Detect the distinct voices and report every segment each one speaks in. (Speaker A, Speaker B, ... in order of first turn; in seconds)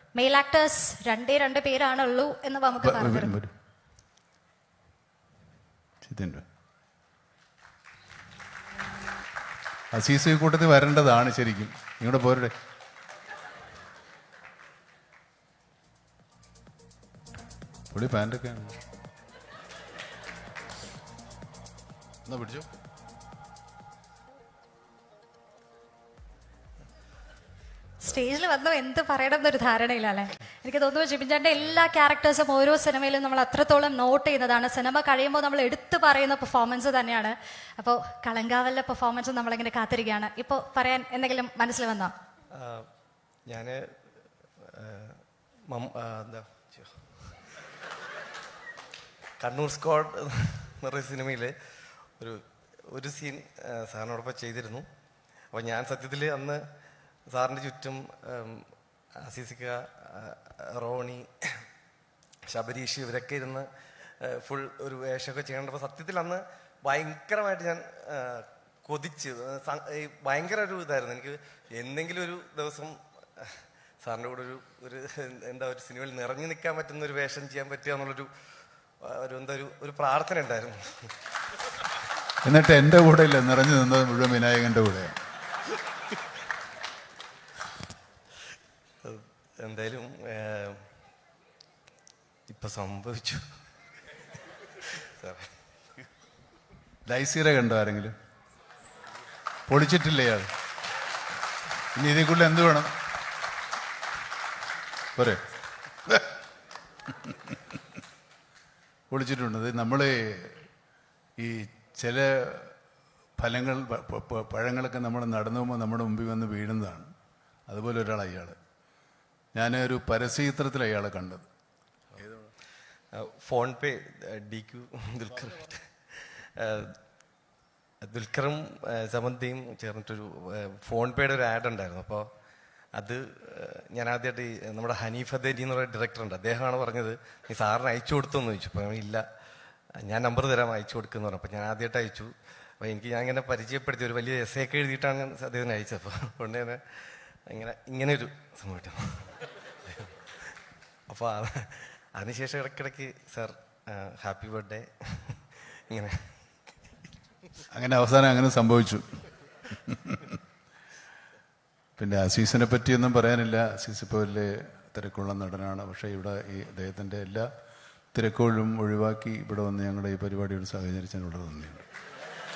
Speaker A: 0.2-3.4, 28.0-42.1
Speaker B: 2.8-3.5, 6.0-6.4, 9.9-12.5, 17.9-18.8, 22.3-22.7, 82.4-85.2, 97.1-98.1, 99.7-100.5, 102.0-102.9, 109.1-110.7, 111.4-112.8, 113.4-117.1, 117.7-118.6, 119.5-121.5, 157.7-159.0, 159.7-160.4, 162.0-167.5, 168.1-171.8
Speaker C: 42.6-42.9, 43.5-43.8, 44.7-47.1, 49.4-51.5, 52.2-54.9, 55.5-56.6, 57.3-61.3, 62.5-63.7, 64.2-78.3, 79.0-81.0, 89.0-90.8, 92.5-93.4, 95.2-95.5, 123.1-127.0, 128.0-132.3, 133.0-139.2, 140.0-150.3, 151.1-156.3